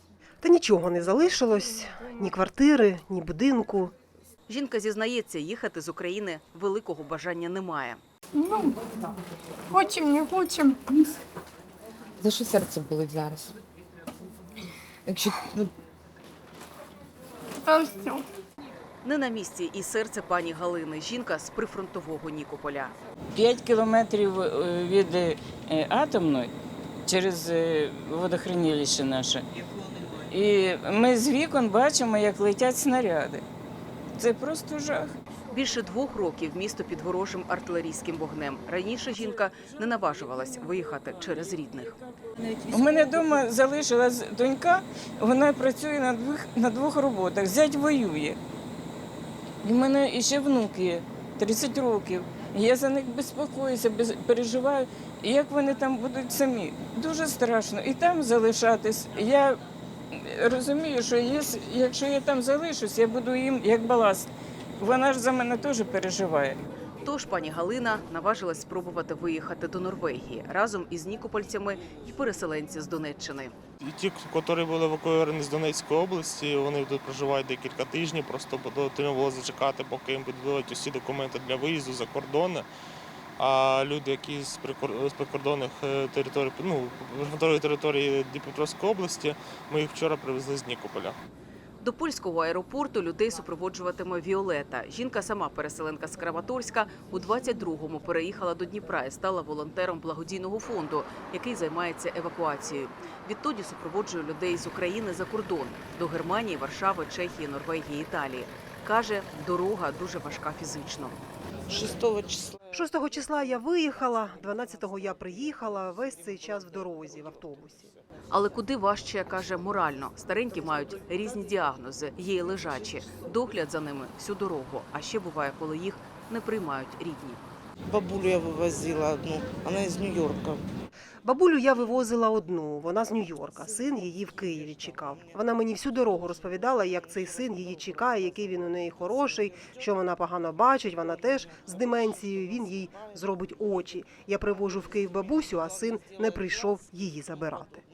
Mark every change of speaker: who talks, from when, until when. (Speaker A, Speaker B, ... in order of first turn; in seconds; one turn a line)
Speaker A: 0.4-3.9
Speaker B: 4.5-8.0
Speaker C: 8.3-8.8
Speaker C: 9.7-11.1
Speaker D: 12.2-13.6
Speaker D: 15.1-15.7
Speaker C: 17.6-18.3
Speaker B: 19.0-22.9
Speaker E: 23.3-26.5
Speaker E: 27.0-29.4
Speaker E: 30.2-33.4
Speaker E: 34.2-35.1
Speaker B: 35.5-42.0
Speaker E: 42.7-48.4
Speaker E: 49.6-59.6
Speaker E: 60.1-66.6
Speaker B: 67.0-73.5
Speaker F: 73.8-82.7
Speaker F: 83.4-91.2
Speaker B: 91.8-111.2
Speaker G: 111.7-112.6
Speaker A: 112.7-117.9
Speaker B: 118.3-127.4
Speaker G: 127.9-130.6
Speaker A: 131.2-147.8